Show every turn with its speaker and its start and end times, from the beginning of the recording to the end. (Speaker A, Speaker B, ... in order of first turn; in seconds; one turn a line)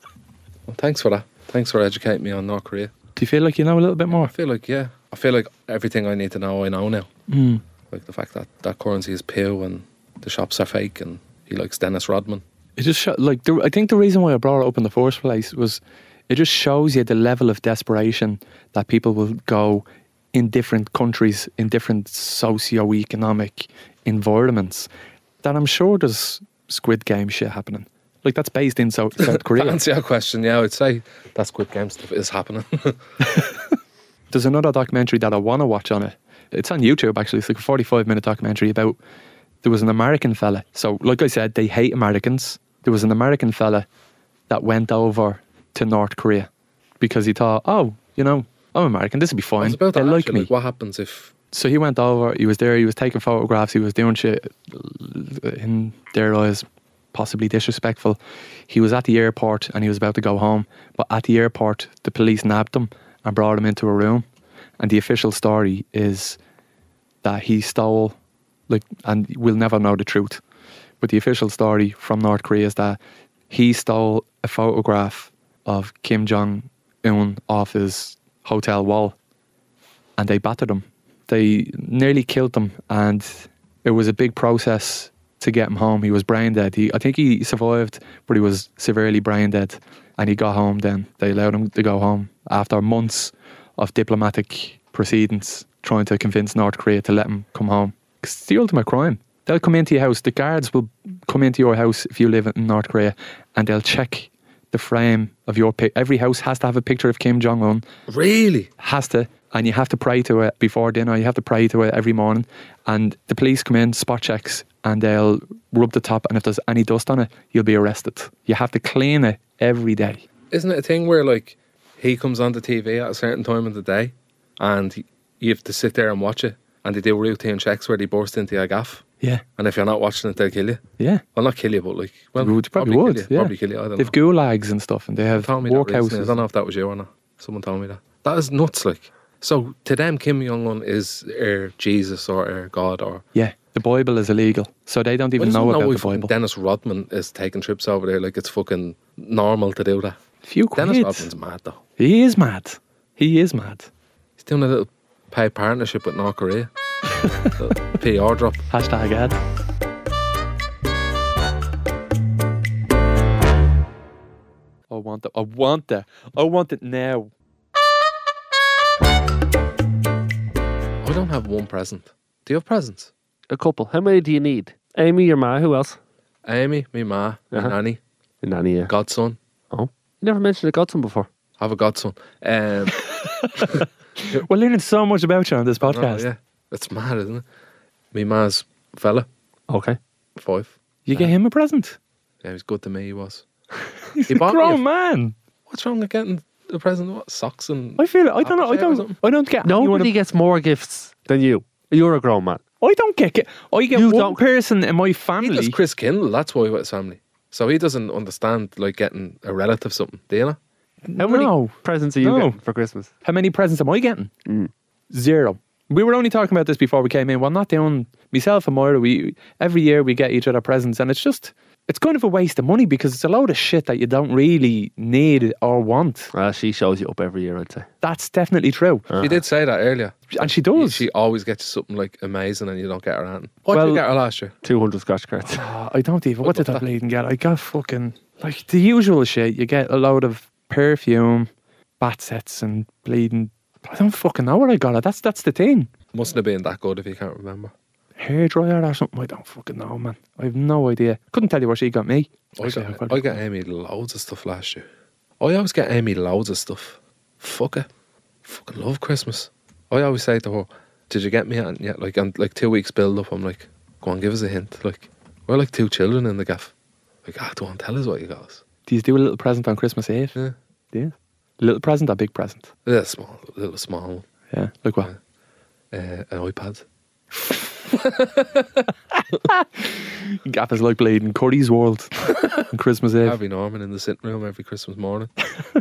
Speaker A: 0.7-2.9
Speaker B: 3.2-4.3
Speaker A: 4.3-7.1
Speaker B: 7.3-7.6
Speaker A: 7.9-12.4
Speaker B: 12.8-24.9
Speaker B: 25.4-29.8
Speaker A: 29.2-33.0
Speaker B: 33.2-33.6
Speaker B: 34.3-39.0
Speaker B: 39.6-43.9
Speaker B: 44.5-46.5
Speaker B: 47.0-50.5
Speaker A: 49.6-51.3
Speaker B: 51.5-58.2
Speaker B: 58.7-64.2
Speaker B: 64.8-66.4
Speaker B: 67.2-68.2
Speaker B: 68.7-70.4
Speaker B: 71.0-73.0
Speaker B: 73.5-79.2
Speaker B: 80.2-107.8
Speaker A: 108.1-108.7
Speaker B: 108.8-120.2
Speaker A: 120.5-129.1
Speaker A: 129.6-130.8
Speaker B: 131.0-131.2
Speaker A: 131.3-134.2
Speaker B: 132.4-136.4
Speaker A: 135.3-143.2
Speaker B: 143.3-146.3
Speaker A: 145.4-150.2
Speaker B: 150.4-151.3
Speaker A: 150.8-151.8
Speaker B: 152.0-153.9
Speaker A: 154.4-156.7
Speaker A: 157.5-158.7
Speaker B: 158.7-159.4
Speaker B: 164.9-167.3
Speaker A: 171.0-173.1
Speaker C: 173.5-176.0
Speaker A: 176.4-178.0
Speaker C: 178.4-178.9
Speaker A: 178.9-179.4
Speaker C: 179.7-181.3
Speaker A: 181.6-183.0
Speaker B: 182.9-186.3
Speaker A: 185.8-187.4
Speaker A: 188.1-189.3
Speaker C: 189.7-190.0
Speaker A: 190.4-191.3
Speaker B: 191.1-192.0
Speaker A: 192.4-193.5
Speaker B: 194.2-195.3
Speaker A: 194.3-194.8
Speaker A: 195.7-199.2
Speaker B: 198.0-200.1
Speaker C: 199.7-202.6
Speaker B: 202.8-205.8
Speaker C: 203.9-204.4
Speaker A: 205.4-210.6
Speaker B: 211.1-212.6
Speaker C: 211.2-213.1
Speaker B: 213.2-214.3
Speaker C: 214.5-214.7
Speaker B: 215.1-226.3
Speaker C: 226.3-227.9
Speaker B: 228.0-229.1
Speaker C: 229.1-229.4
Speaker A: 229.2-234.5
Speaker B: 230.3-231.0
Speaker B: 233.7-234.0
Speaker C: 234.6-235.6
Speaker B: 235.5-241.5
Speaker A: 236.4-236.8
Speaker B: 242.0-245.9
Speaker A: 246.1-247.7
Speaker B: 248.2-253.4
Speaker A: 252.6-254.9
Speaker A: 255.4-257.9
Speaker A: 258.4-266.7
Speaker A: 267.2-268.6
Speaker B: 268.9-270.4
Speaker B: 270.9-272.7
Speaker A: 272.9-274.3
Speaker B: 274.5-275.1
Speaker A: 275.9-276.9
Speaker A: 277.9-278.9
Speaker B: 279.4-283.4
Speaker A: 283.2-285.3